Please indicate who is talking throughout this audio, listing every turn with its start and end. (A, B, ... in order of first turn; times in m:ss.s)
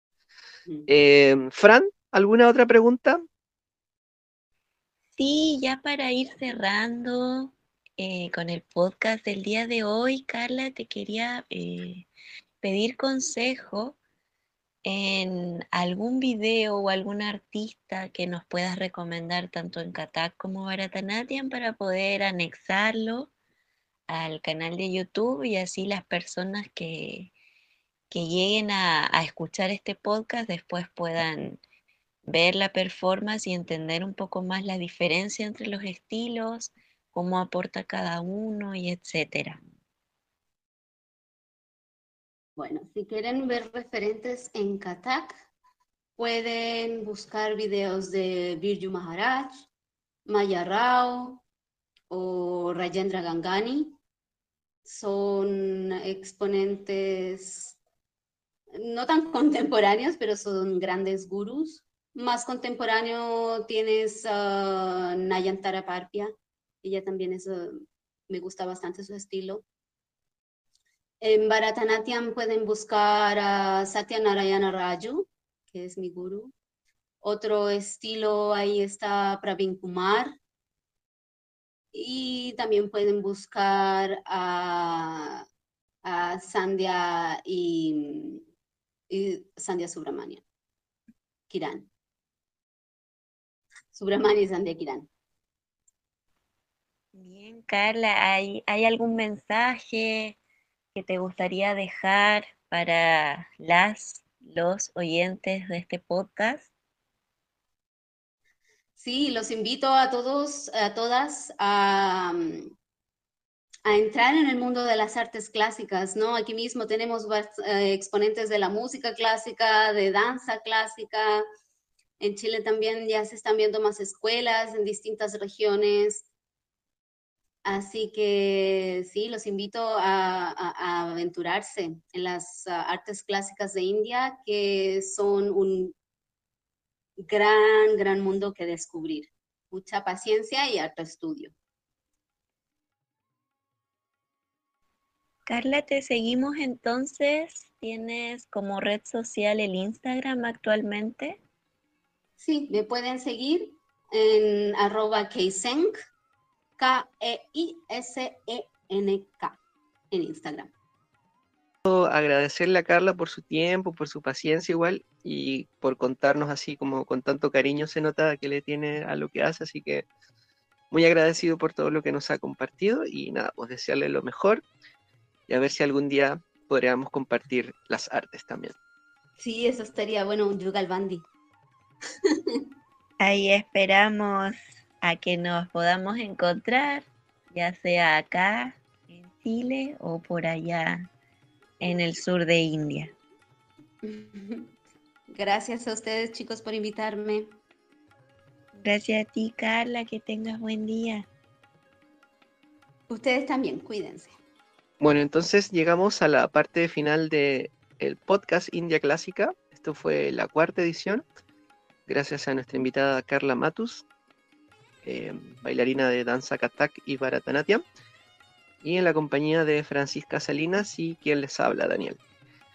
0:00.9-0:03.2 A
0:05.2-0:12.1 B
0:12.6-0:14.0 B
0:14.8-0:23.3 B
0:24.1-0:27.3 B
0:28.1-0:31.6 B
0:32.3-0:39.6 B
0:42.6-0:45.3 C
0:46.2-0:49.7 C
0:50.3-0:51.4 C
0:52.1-0:54.0 C
0:54.8-0:57.8 C
0:58.8-1:06.3 C
1:06.8-1:09.6 C
1:11.2-1:16.5 C
1:17.2-1:20.4 C
1:21.9-1:25.4 C
1:26.0-1:28.4 C
1:29.1-1:30.4 C
1:31.5-1:31.9 C
1:33.9-1:35.1 C
1:37.1-1:40.4 B
1:41.0-1:46.7 B
1:49.0-1:52.7 C
1:53.9-2:01.4 C
2:02.2-2:06.3 C
2:07.6-2:16.0 C
2:17.2-2:21.5 C
2:25.5-2:31.4 B
2:32.4-2:36.0 C
2:36.8-2:39.6 C
2:40.1-2:40.7 C
2:41.8-2:50.1 A
2:50.9-2:54.6 A
2:55.5-2:58.7 A
2:59.4-3:01.2 C
3:03.2-3:11.0 B
3:11.8-3:13.1 B
3:14.0-3:14.7 C
3:15.3-3:17.6 C
3:18.8-3:21.3 B
3:23.1-3:24.4 C
3:25.0-3:31.2 A
3:32.1-3:34.0 A
3:35.0-3:37.8 A
3:38.8-3:42.2 A